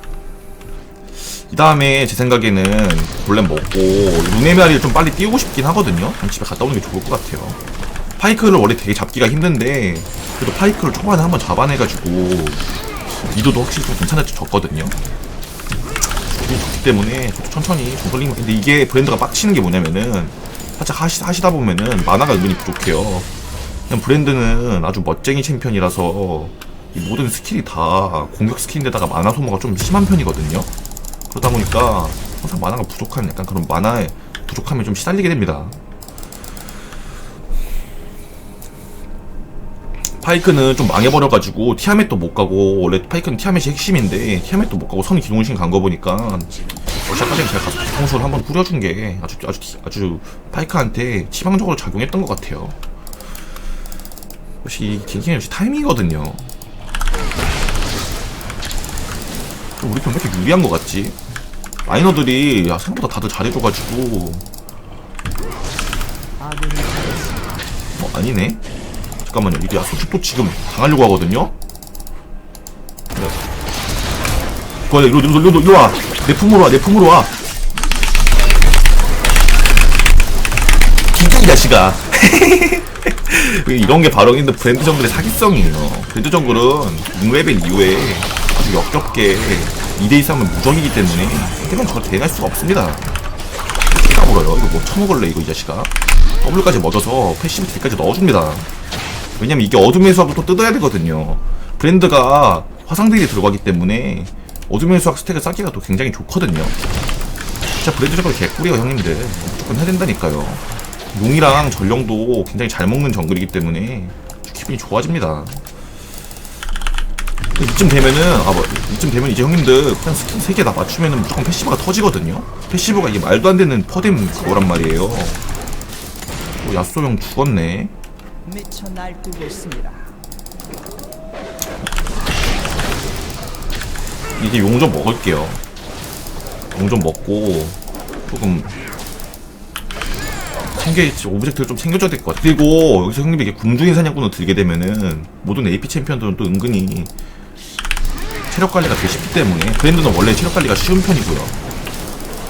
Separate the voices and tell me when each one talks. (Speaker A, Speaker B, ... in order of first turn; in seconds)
Speaker A: 1.2-7.6, 8.2-15.0, 16.3-23.3, 23.9-30.7, 31.3-35.8, 40.2-52.8, 54.6-56.5, 59.8-61.2, 61.9-64.5, 68.0-68.6, 69.2-71.5, 74.9-77.4, 81.1-93.2, 93.9-98.7, 99.4-106.8, 107.8-115.6, 117.5-125.4, 126.6-127.9, 134.4-135.6, 136.7-138.7, 140.7-147.1, 148.5-151.6
Speaker B: 66.4-67.8, 124.2-125.5, 128.4-130.2